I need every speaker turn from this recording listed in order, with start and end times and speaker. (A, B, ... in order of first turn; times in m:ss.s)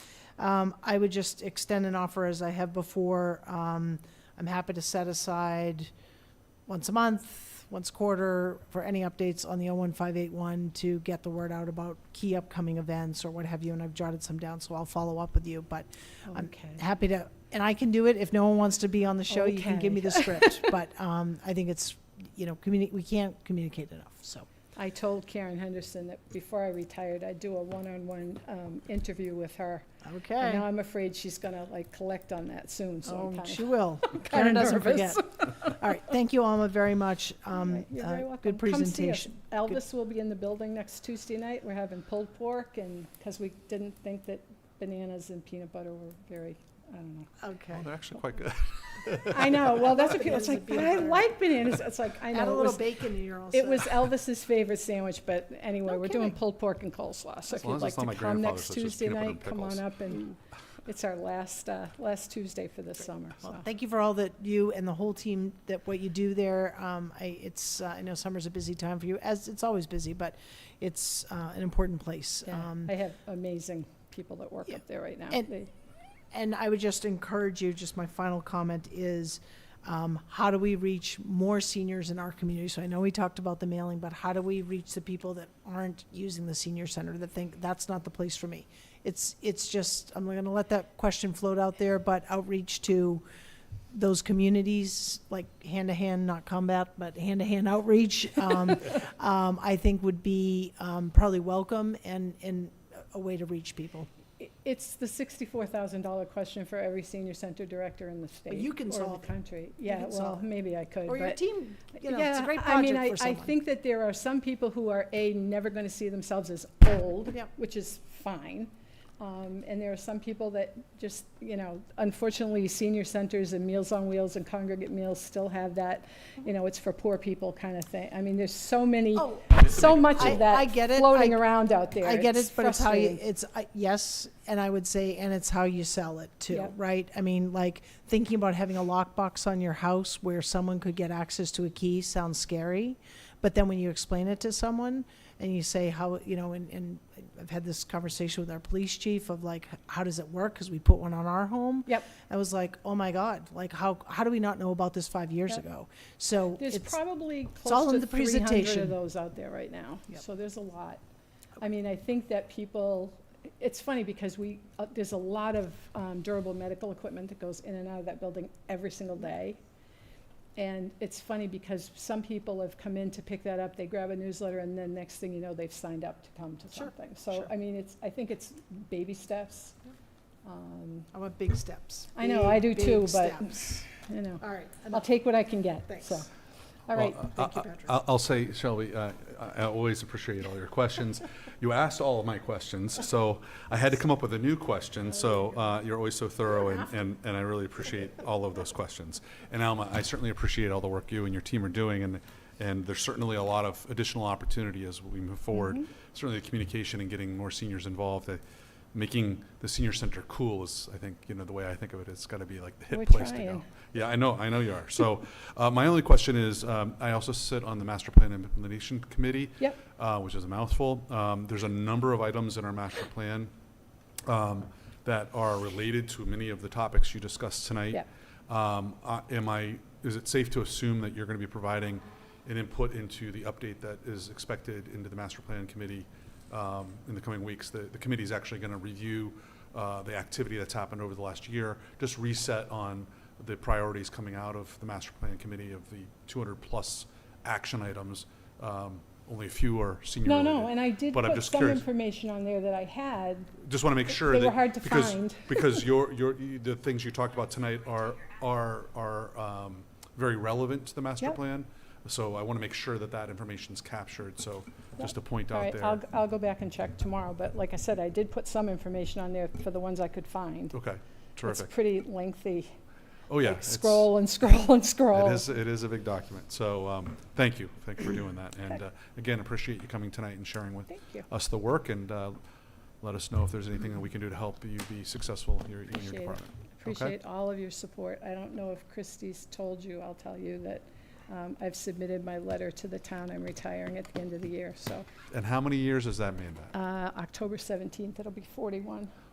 0:00.4-0:05.9 A
0:06.7-0:24.5 A
0:16.3-0:16.8 B
0:19.3-0:20.7 B
0:24.8-0:29.8 B
0:30.0-0:30.6 A
0:30.4-0:35.7 B
0:33.0-0:39.8 A
0:37.6-0:47.3 B
0:47.4-0:47.9 A
0:47.7-0:49.6 C
0:49.3-0:52.9 B
0:49.7-0:51.5 A
0:52.3-0:54.1 A
0:53.5-1:03.6 B
0:55.8-0:56.4 A
0:57.5-1:00.1 C
1:03.4-1:12.9 A
1:12.4-1:15.7 B
1:16.3-1:33.2 A
1:33.9-1:44.1 A
1:44.4-1:51.4 B
1:48.5-1:49.3 A
1:49.8-1:50.4 A
1:51.0-1:53.5 A
1:51.9-2:13.2 B
2:09.2-2:09.5 A
2:09.6-2:10.4 C
2:10.1-2:37.0 A
2:36.6-2:41.0 B
2:37.6-2:39.0 A
2:41.6-2:49.6 B
2:50.6-2:59.8 B
2:56.7-2:57.5 A
3:00.4-3:01.1 B
3:01.1-3:03.9 A
3:02.1-3:06.3 B
3:04.4-3:05.0 A
3:05.9-3:06.2 A
3:06.9-3:07.2 B
3:06.9-3:28.4 C
3:07.3-3:07.9 A
3:25.5-3:25.8 B
3:28.9-3:43.5 C
3:32.9-3:33.7 B
3:44.2-4:11.8 C
4:10.2-4:13.5 B
4:13.6-4:26.0 C
4:14.1-4:15.8 B
4:25.0-4:30.8 B
4:30.7-4:31.7 C
4:31.4-4:32.7 B
4:33.3-4:34.1 C
4:33.4-4:35.4 B
4:35.1-4:42.4 C
4:40.9-4:41.2 B
4:43.0-4:47.1 C
4:45.9-4:55.0 B
4:55.3-4:56.7 C
4:56.7-4:59.1 B